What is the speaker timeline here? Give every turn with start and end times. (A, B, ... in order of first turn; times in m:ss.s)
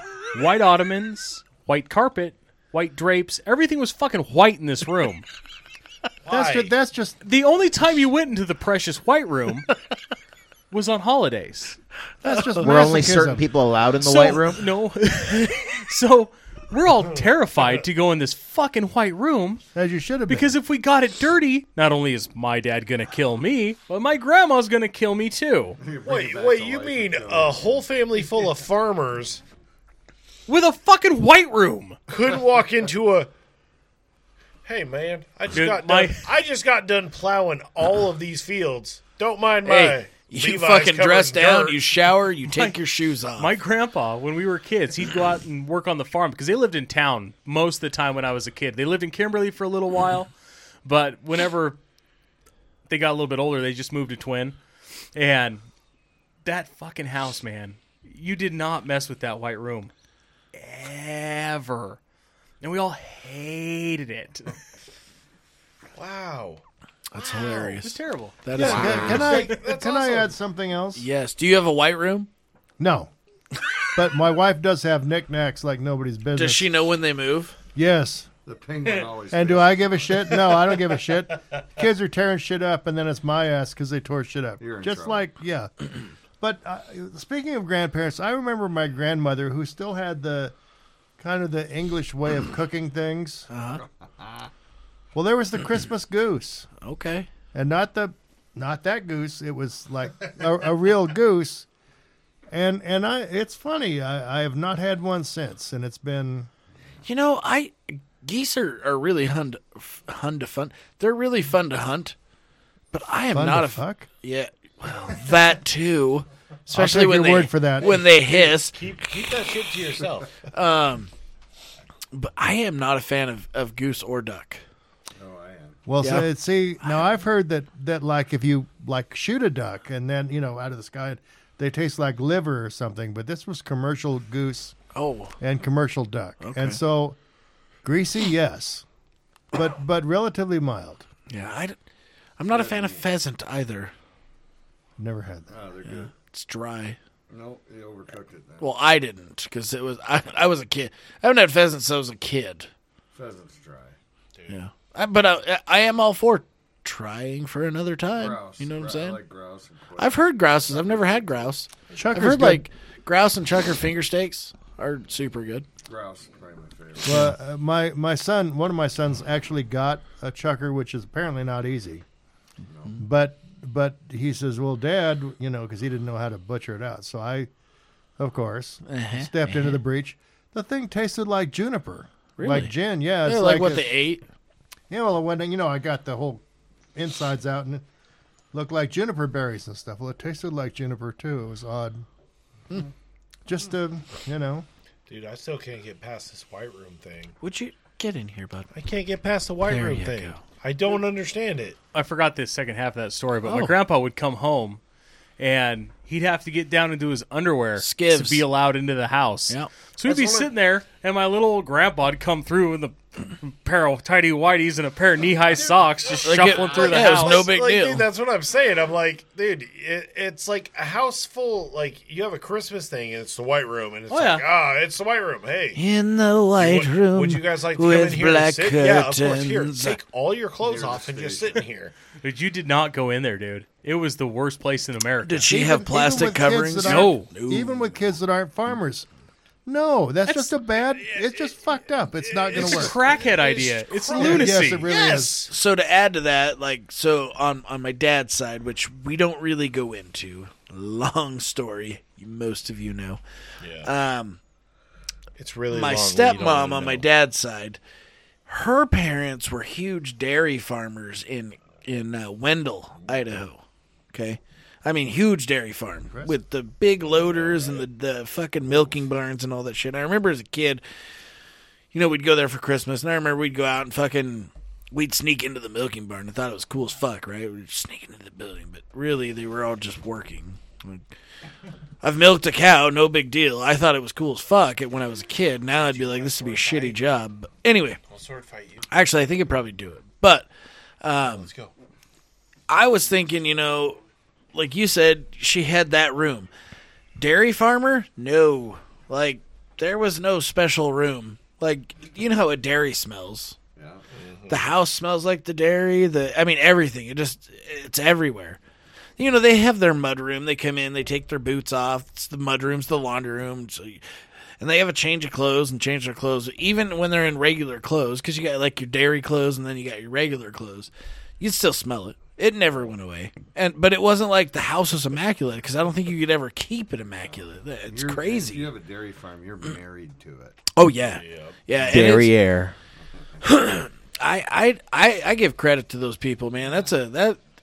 0:00.3-0:05.2 A
0:06.2-0:06.7 B
0:06.3-0:07.2 C
0:07.2-0:09.7 A
0:10.7-0:11.8 A
0:12.2-0:13.5 C
0:12.3-0:12.5 D
0:12.6-0:14.6 E
0:14.0-0:19.6 A
0:19.7-0:20.5 C
0:20.3-0:25.8 A
0:25.8-0:27.9 F
0:26.0-0:29.4 B
0:30.5-0:32.0 A
0:32.1-0:33.3 B
0:34.6-0:41.8 B
0:35.5-0:36.3 A
0:39.6-0:43.5 D
0:42.5-0:42.8 A
0:43.4-0:50.3 A
0:50.8-0:51.8 A
0:52.9-0:54.6 A
0:55.1-0:55.6 A
0:56.4-0:59.9 A
1:00.5-1:02.0 A
1:02.6-1:04.6 A
1:05.9-1:06.6 B
1:07.1-1:09.3 D
1:07.2-1:07.8 B
1:07.8-1:08.4 A
1:08.5-1:09.5 F
1:08.6-1:11.0 C
1:08.7-1:10.3 B
1:11.0-1:12.3 D
1:12.8-1:13.1 C
1:14.0-1:16.7 C
1:16.3-1:17.5 D
1:17.7-1:18.3 C
1:18.4-1:20.4 F
1:18.8-1:19.1 B
1:19.3-1:30.5 C
1:24.6-1:25.3 F
1:31.2-1:33.5 C
1:33.5-1:33.8 D
1:33.8-1:34.5 F
1:35.1-1:36.7 C
1:36.8-1:37.3 D
1:37.5-1:41.7 C
1:42.5-1:46.5 C
1:47.0-1:52.1 D
1:52.9-1:58.8 D
1:53.3-1:54.1 C
1:56.7-1:57.9 C
1:57.8-2:00.3 B
2:00.5-2:01.1 D
2:02.1-2:04.6 D
2:05.2-2:05.8 F
2:05.8-2:14.7 C
2:06.0-2:06.3 D
2:14.9-2:15.3 D
2:15.4-2:17.2 C
2:16.4-2:16.8 D
2:17.8-2:18.8 C
2:19.5-2:21.0 C
2:21.3-2:21.8 D
2:22.4-2:23.9 D
2:22.5-2:23.0 F
2:25.0-2:25.5 C
2:25.5-2:26.1 F
2:25.8-2:27.0 D
2:27.3-2:28.7 F
2:28.6-2:32.7 D
2:33.1-2:33.9 F
2:34.5-2:39.2 D
2:38.1-2:41.6 F
2:40.0-2:45.6 D
2:42.0-2:42.6 C
2:45.8-2:47.3 F
2:47.0-2:52.0 C
2:52.7-2:53.0 F
2:53.0-2:57.5 C
2:58.2-3:03.9 C
2:58.8-2:59.8 D
3:02.4-3:04.2 D
3:04.9-3:06.4 C
3:06.9-3:07.8 C
3:08.5-3:12.0 C
3:13.4-3:14.6 C
3:15.1-3:17.3 B
3:17.4-3:18.7 D
3:18.7-3:21.8 B
3:19.6-3:20.4 D
3:21.9-3:24.8 A
3:23.4-3:23.7 D
3:25.4-3:37.4 A
3:27.8-3:28.4 D
3:30.0-3:30.5 B
3:35.6-3:45.8 B
3:36.1-3:38.1 D
3:44.1-3:44.4 A
3:45.7-3:50.0 D
3:46.6-3:51.9 B
3:50.6-3:51.6 F
3:52.2-3:55.5 A
3:55.2-3:57.7 D
3:55.4-3:59.1 C
3:56.8-3:57.3 A
3:59.6-4:02.9 C
4:00.2-4:00.5 A
4:00.9-4:05.5 B
4:02.5-4:04.8 A
4:04.1-4:05.4 C
4:05.5-4:13.2 D
4:13.6-4:13.9 B
4:13.8-4:14.4 D
4:15.4-4:17.1 B
4:15.7-4:17.8 D
4:18.4-4:23.6 D
4:24.1-4:30.8 D
4:27.1-4:27.8 B
4:31.9-4:41.0 D
4:42.0-4:48.0 D
4:45.7-4:47.0 B
4:48.1-4:48.9 B
4:48.9-4:50.5 D
4:51.0-4:51.5 D
4:51.3-4:51.7 B
4:52.7-4:54.0 D
4:54.5-4:56.5 D
4:57.2-5:03.6 D
5:03.8-5:04.0 F
5:04.1-5:04.7 B
5:04.5-5:08.6 D
5:09.2-5:14.0 D
5:14.6-5:28.7 D
5:27.9-5:30.6 F
5:30.7-5:32.3 D
5:31.0-5:31.7 B
5:31.8-5:32.8 E
5:33.0-5:33.4 F
5:33.4-5:37.4 D